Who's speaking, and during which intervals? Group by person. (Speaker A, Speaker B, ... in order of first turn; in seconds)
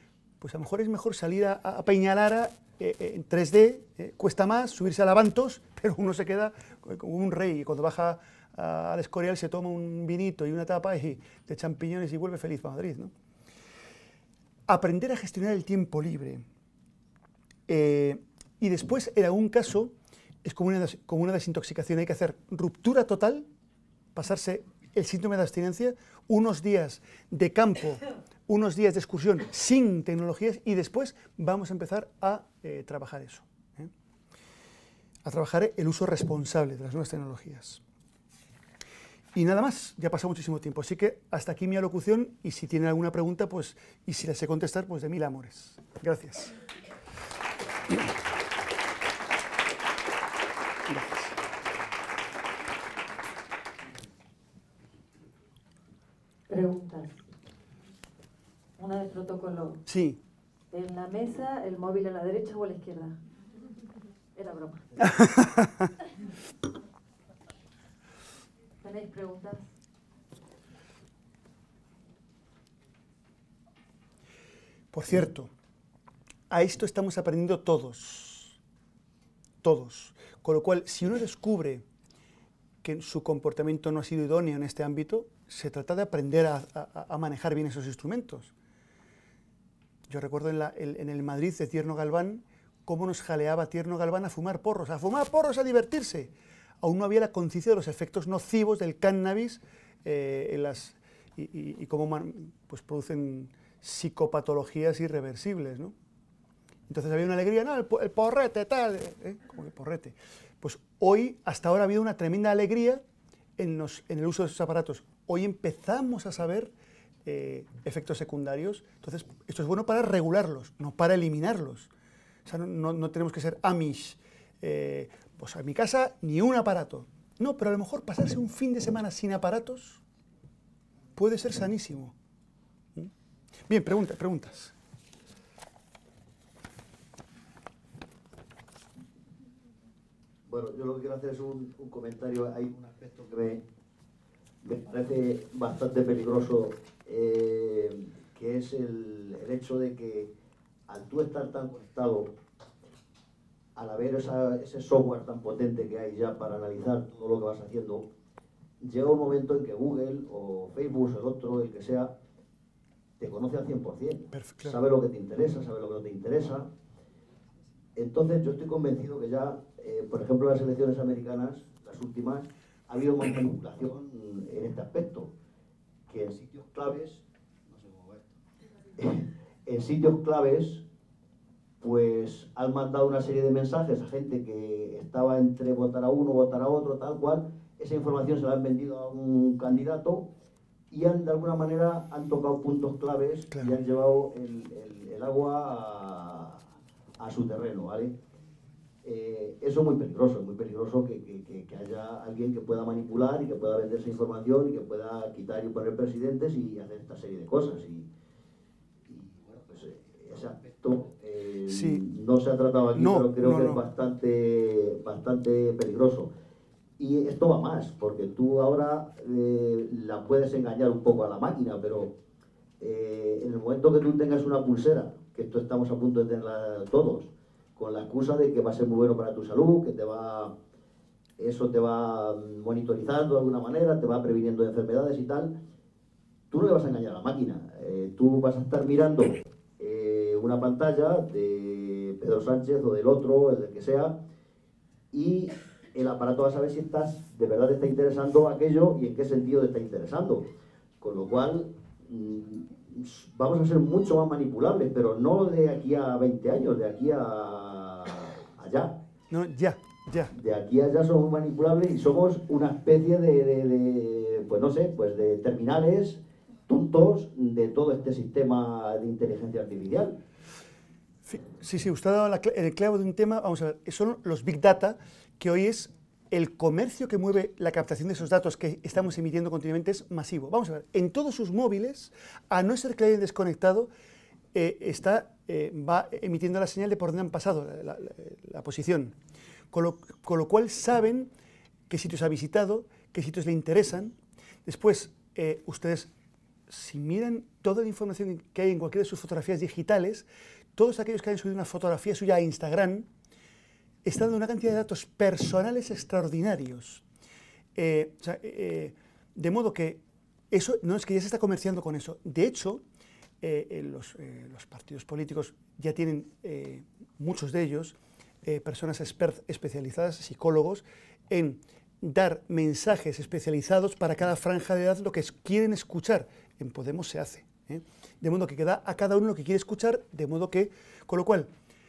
Speaker A: 0.4-13.1, 14.7-16.4, 17.7-23.5, 24.1-33.9, 35.2-37.8, 39.3-46.5, 50.9-51.3, 59.9-60.2, 65.0-65.9, 74.9-75.5, 76.5-78.6, 79.6-81.8, 82.8-88.5, 90.1-105.9, 106.9-113.0, 113.6-116.7, 117.2-121.9, 122.5-130.0, 131.2-132.1, 133.7-134.7, 164.3-164.8, 211.7-212.0, 212.9-213.8, 259.3-260.3, 271.3-283.9, 284.5-289.2, 289.7-291.3, 291.9-296.1, 296.7-303.1, 304.0-307.0, 307.8-312.8, 313.4-331.5
Speaker B: 56.5-57.2, 58.8-59.8, 60.7-63.2, 64.3-65.2, 68.8-69.6
Speaker C: 140.4-143.7, 144.6-150.3, 150.9-152.4, 153.8-158.1, 158.8-162.2, 163.2-166.7, 167.9-175.3, 176.1-178.4, 178.9-180.9, 181.8-190.3, 190.9-196.7, 197.2-198.2, 199.0-208.1, 209.1-216.3, 217.0-222.2, 222.8-230.6, 231.4-235.6, 236.5-244.2, 245.1-259.0, 260.3-270.2